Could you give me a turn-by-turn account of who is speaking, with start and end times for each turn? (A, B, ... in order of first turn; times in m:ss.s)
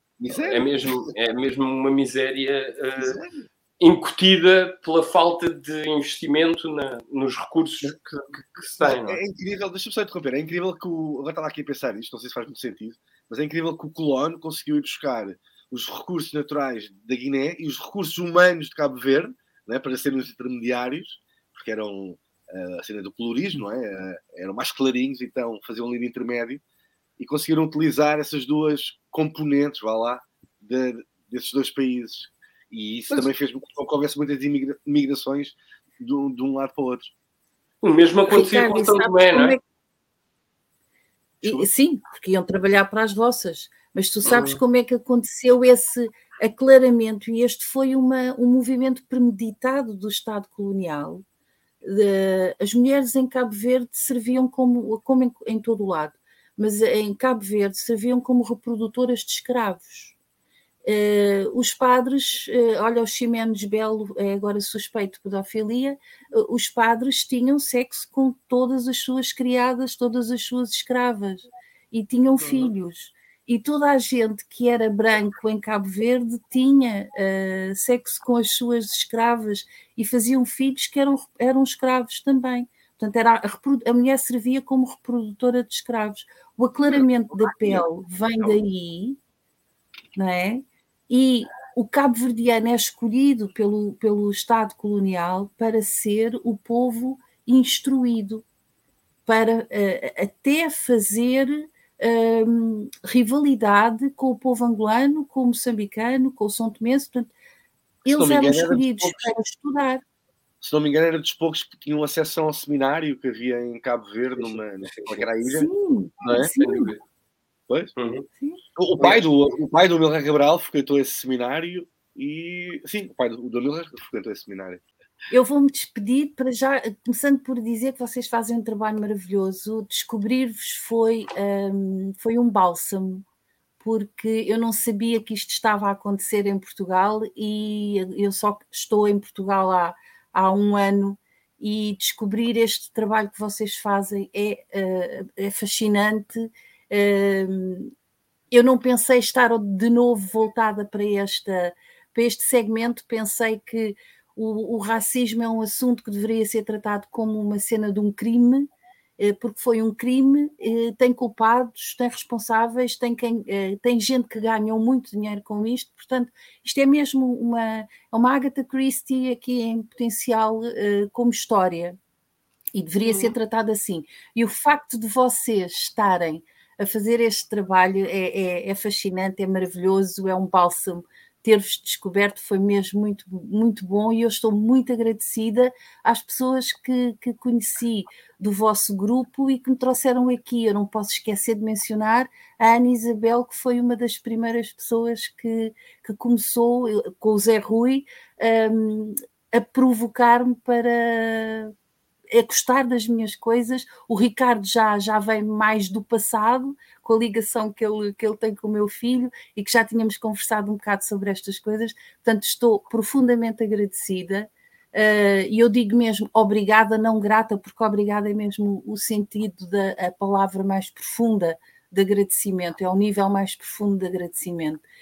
0:00.2-0:01.1 A
0:00.3-0:03.2 B
0:03.0-0:03.4 A
0:03.8-0:09.2 B
0:08.8-0:26.6 A
0:27.2-0:37.1 A
0:37.8-0:39.6 B
0:38.2-0:39.6 C
0:41.4-0:51.2 C
0:41.4-0:41.7 A
0:44.2-0:44.6 B
0:51.8-1:00.1 C
1:00.8-1:29.2 C
1:12.4-1:12.7 B
1:30.1-1:38.4 C
1:39.2-1:47.3 C
1:48.0-1:49.3 A
1:48.0-1:50.0 C
1:50.6-1:55.7 A
1:54.4-1:55.3 B
1:55.4-1:56.9 C
1:56.2-1:56.5 A
1:56.3-1:57.0 B
1:58.0-1:58.3 B
1:58.8-2:04.8 A
1:59.0-1:59.2 B
2:05.3-2:13.2 C
2:13.8-2:27.9 C
2:28.5-2:52.0 C
2:52.7-3:21.7 C
2:53.0-2:53.3 B
3:22.3-3:44.8 C